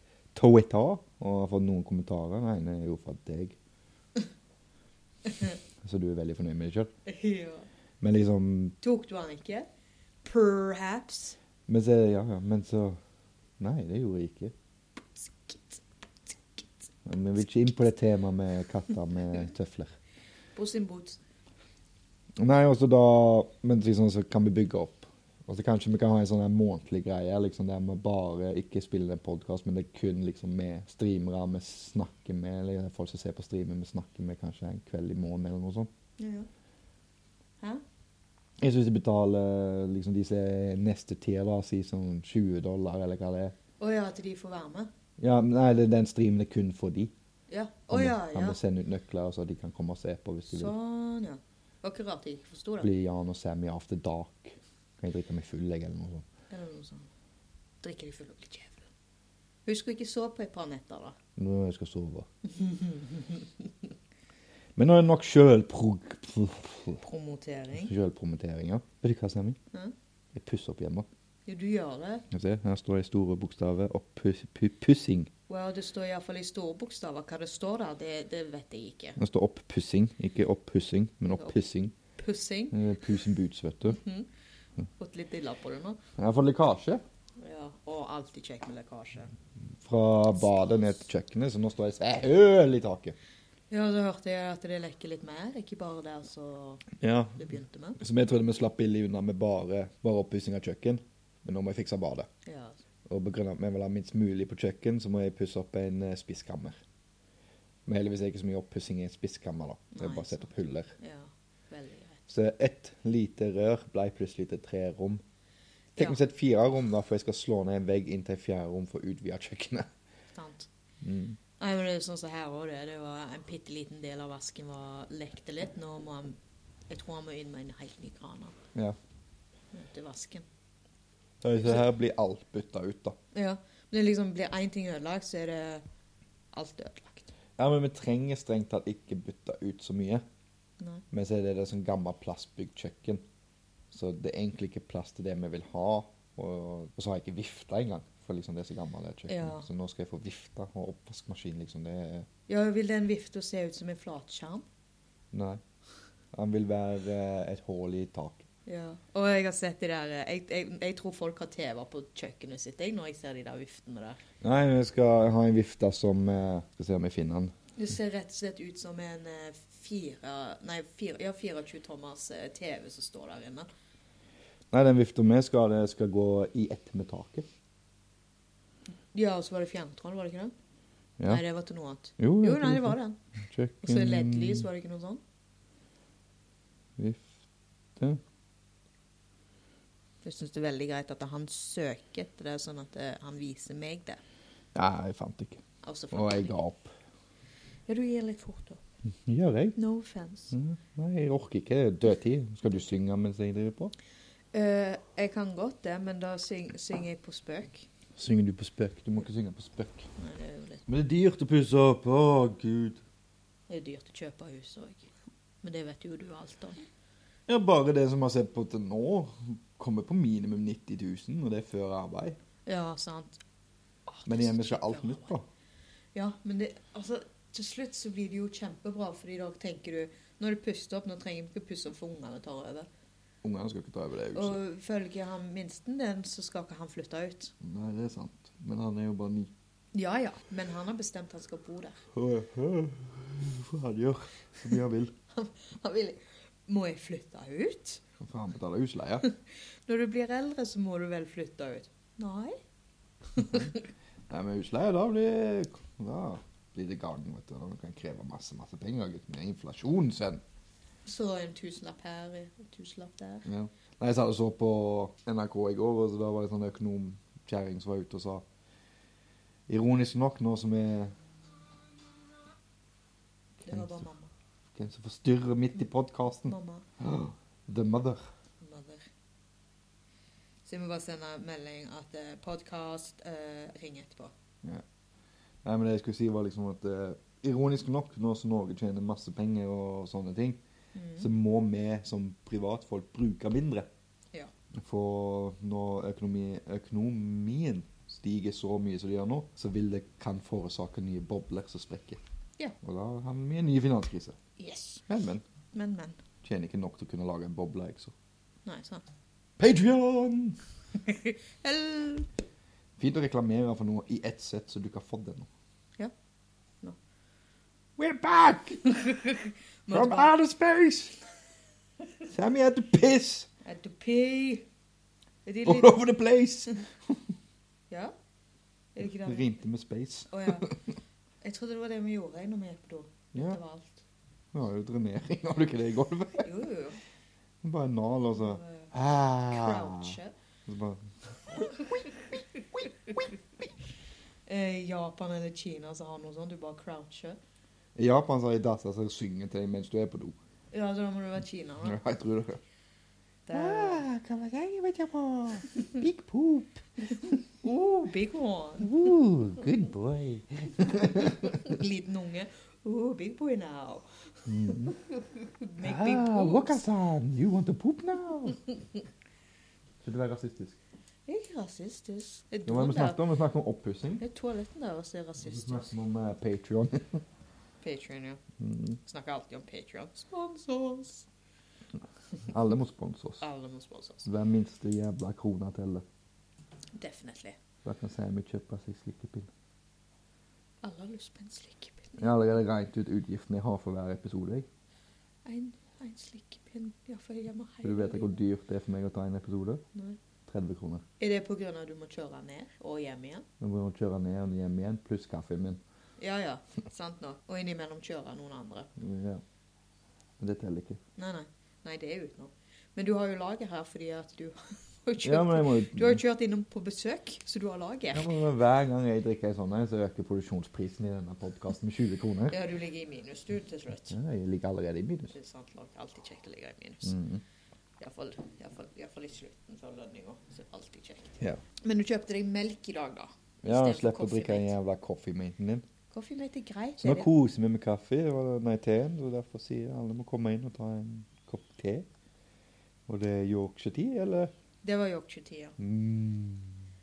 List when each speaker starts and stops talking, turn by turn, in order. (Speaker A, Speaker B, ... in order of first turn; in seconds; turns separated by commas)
Speaker A: 0.3-3.6, Speaker A: 5.8-6.9, Speaker B: 7.1-7.7, Speaker A: 8.0-8.8, Speaker B: 8.8-9.7, Speaker B: 10.2-11.4, Speaker A: 11.7-13.0, Speaker A: 13.6-14.5, Speaker B: 15.2-15.8, Speaker A: 17.1-20.0, Speaker B: 20.6-21.2, Speaker A: 22.4-35.9, Speaker B: 36.2-36.5, Speaker A: 38.6-43.5, Speaker B: 43.8-44.9, Speaker A: 45.2-47.1, Speaker B: 47.5-48.6, Speaker A: 47.9-50.7, Speaker B: 50.5-52.9, Speaker A: 52.8-56.3, Speaker B: 56.5-57.1, Speaker B: 57.8-58.9, Speaker B: 59.7-61.2, Speaker A: 61.4-62.3, Speaker B: 62.4-63.7, Speaker A: 64.8-67.0, Speaker B: 67.0-67.9, Speaker A: 67.7-69.6, Speaker A: 70.3-71.1, Speaker B: 71.5-72.3, Speaker A: 72.3-75.3, Speaker B: 75.5-79.2, Speaker A: 79.2-81.9, Speaker B: 82.2-82.8, Speaker A: 82.7-84.0, Speaker B: 83.9-84.3, Speaker B: 85.0-86.0, Speaker A: 86.2-87.0, Speaker B: 87.4-89.3, Speaker A: 89.8-93.2, Speaker B: 93.7-98.0, Speaker A: 97.0-102.3, Speaker B: 102.5-102.8, Speaker A: 103.1-106.8, Speaker A: 107.9-110.9, Speaker B: 110.0-112.3, Speaker A: 112.3-115.2, Speaker A: 116.0-119.9, Speaker B: 120.3-120.7, Speaker A: 121.0-121.4, Speaker B: 121.6-126.4, Speaker B: 126.9-128.6, Speaker B: 129.7-130.5, Speaker A: 131.4-133.2, Speaker B: 133.3-135.8, Speaker B: 136.5-137.3, Speaker A: 137.6-140.2, Speaker B: 140.8-141.0, Speaker A: 141.1-143.2, Speaker A: 143.9-152.3, Speaker B: 149.3-149.7, Speaker B: 152.5-154.7, Speaker A: 155.3-155.6, Speaker A: 156.3-158.5, Speaker B: 158.7-164.2, Speaker A: 164.4-167.5, Speaker B: 167.8-173.7, Speaker A: 174.7-177.5, Speaker B: 179.1-180.5, Speaker B: 181.3-183.2, Speaker A: 182.2-184.7, Speaker B: 183.8-185.2, Speaker A: 187.0-187.4, Speaker B: 190.2-194.2, Speaker A: 194.8-196.9, Speaker B: 195.8-196.6, Speaker B: 197.9-198.8, Speaker A: 199.3-199.8, Speaker B: 199.8-200.5, Speaker A: 200.5-203.9, Speaker B: 204.5-207.9, Speaker A: 208.2-210.1, Speaker B: 210.2-210.8, Speaker A: 210.9-213.0, Speaker B: 213.7-215.1, Speaker B: 215.6-216.8, Speaker A: 217.5-222.4, Speaker B: 222.7-223.4, Speaker B: 224.1-225.4, Speaker A: 224.3-225.5, Speaker B: 226.1-232.9, Speaker A: 233.4-234.6, Speaker B: 234.3-237.5, Speaker A: 237.6-239.5, Speaker B: 239.9-242.0, Speaker A: 242.1-245.1, Speaker B: 245.3-248.0, Speaker A: 248.2-249.3, Speaker B: 249.3-252.6, Speaker B: 253.4-253.8, Speaker A: 253.4-253.8, Speaker A: 254.3-260.4, Speaker B: 261.1-263.5, Speaker A: 263.5-268.4, Speaker A: 269.7-271.1, Speaker A: 273.6-274.0, Speaker B: 273.7-274.3, Speaker A: 274.8-278.3, Speaker B: 276.4-276.9, Speaker B: 278.6-279.1, Speaker B: 280.6-284.3, Speaker A: 285.6-290.6, Speaker B: 290.9-291.3, Speaker A: 291.2-293.9, Speaker A: 294.7-302.2, Speaker A: 302.8-304.4, Speaker B: 304.6-305.1, Speaker A: 305.1-305.4, Speaker B: 305.7-306.2, Speaker A: 306.4-308.1, Speaker B: 308.6-309.1, Speaker A: 309.6-310.6, Speaker B: 310.9-312.3, Speaker A: 313.0-315.5, Speaker A: 318.0-318.9, Speaker B: 318.8-320.3, Speaker A: 319.9-321.2, Speaker A: 322.3-323.5, Speaker B: 323.6-324.7, Speaker B: 325.5-326.0, Speaker A: 325.6-327.2, Speaker B: 328.9-329.5, Speaker A: 329.0-330.8, Speaker B: 330.3-330.7, Speaker B: 331.4-334.0, Speaker A: 333.3-333.6, Speaker A: 334.5-336.5, Speaker B: 336.4-337.0, Speaker A: 337.6-342.1, Speaker B: 338.3-338.9, Speaker B: 339.5-340.3, Speaker B: 341.5-343.2, Speaker B: 344.5-347.4, Speaker A: 348.0-350.4, Speaker B: 350.7-352.0, Speaker A: 351.8-352.6, Speaker B: 353.5-354.1, Speaker A: 353.5-357.4, Speaker B: 357.6-359.1, Speaker A: 358.8-361.6, Speaker B: 360.8-364.1, Speaker A: 364.5-365.0, Speaker B: 364.6-366.8, Speaker A: 365.8-368.6, Speaker A: 370.0-370.8, Speaker B: 371.3-373.2, Speaker A: 372.7-374.2, Speaker B: 374.2-375.9, Speaker A: 375.4-377.2, Speaker B: 377.8-378.4, Speaker A: 378.6-379.0, Speaker B: 379.1-381.3, Speaker A: 382.5-383.4, Speaker B: 383.4-384.3, Speaker A: 384.2-386.0, Speaker B: 387.0-387.6, Speaker A: 387.9-389.5, Speaker B: 390.8-392.4, Speaker A: 392.2-394.7, Speaker B: 395.4-398.4, Speaker A: 397.8-399.8, Speaker A: 400.5-401.0, Speaker B: 401.2-403.5, Speaker A: 403.6-405.8, Speaker B: 406.2-408.9, Speaker A: 409.0-409.4, Speaker A: 410.4-411.0, Speaker B: 411.2-418.3, Speaker A: 415.2-416.2, Speaker A: 418.1-422.6, Speaker B: 422.5-424.1, Speaker A: 424.1-425.3, Speaker B: 425.3-427.2, Speaker A: 427.0-427.4, Speaker B: 428.0-434.7, Speaker A: 433.6-435.9, Speaker B: 436.1-437.3, Speaker A: 437.0-442.1, Speaker A: 443.1-444.5, Speaker B: 444.8-445.8, Speaker A: 445.8-446.8